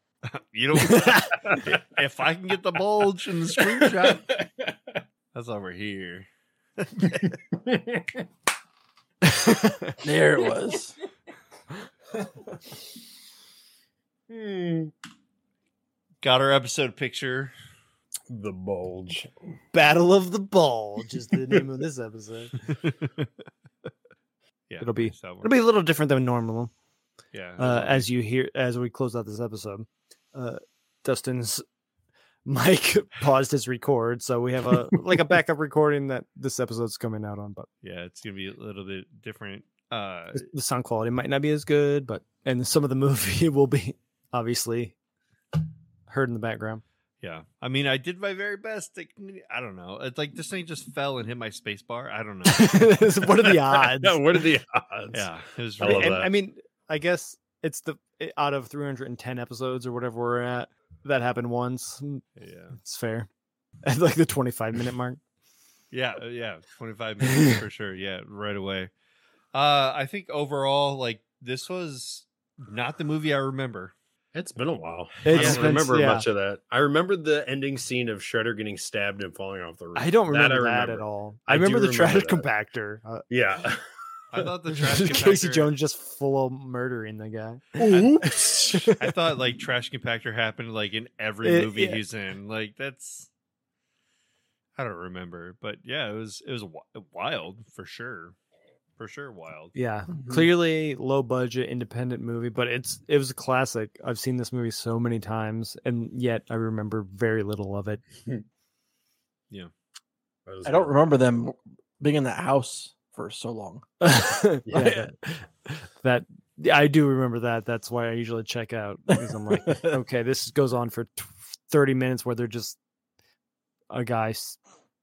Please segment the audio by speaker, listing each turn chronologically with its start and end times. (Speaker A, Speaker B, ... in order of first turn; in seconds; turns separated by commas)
Speaker A: 0.3-4.4, Speaker B: 0.9-1.2, Speaker C: 3.6-5.0, Speaker A: 5.3-7.4, Speaker C: 7.5-8.2, Speaker B: 9.2-9.9, Speaker C: 10.0-10.9, Speaker C: 14.3-14.9, Speaker A: 16.2-17.5, Speaker C: 18.3-19.3, Speaker B: 19.7-22.8, Speaker A: 22.8-23.4, Speaker A: 24.7-25.5, Speaker B: 24.8-26.7, Speaker A: 27.3-28.1, Speaker B: 27.6-31.6, Speaker B: 32.5-37.7, Speaker A: 37.8-40.5, Speaker B: 40.4-45.0, Speaker B: 46.1-46.8, Speaker A: 47.2-53.0, Speaker B: 52.5-54.4, Speaker C: 53.3-56.3, Speaker A: 55.1-56.3, Speaker B: 55.8-62.2, Speaker A: 62.4-62.8, Speaker B: 62.8-63.3, Speaker B: 63.8-65.2, Speaker A: 65.9-68.9, Speaker A: 69.5-73.9, Speaker C: 74.3-82.5, Speaker B: 75.2-76.3, Speaker A: 75.3-75.8, Speaker B: 80.0-83.2, Speaker C: 83.3-83.8, Speaker A: 84.3-85.7, Speaker B: 84.7-89.1, Speaker C: 87.8-88.9, Speaker A: 87.8-88.3, Speaker A: 89.0-93.3, Speaker B: 91.4-92.0, Speaker A: 94.8-98.3, Speaker A: 99.0-99.7, Speaker B: 99.7-108.0, Speaker C: 100.2-100.5, Speaker C: 110.5-111.0, Speaker D: 110.6-113.8, Speaker B: 114.0-122.8, Speaker C: 114.7-115.1, Speaker D: 119.2-119.8, Speaker B: 123.9-124.6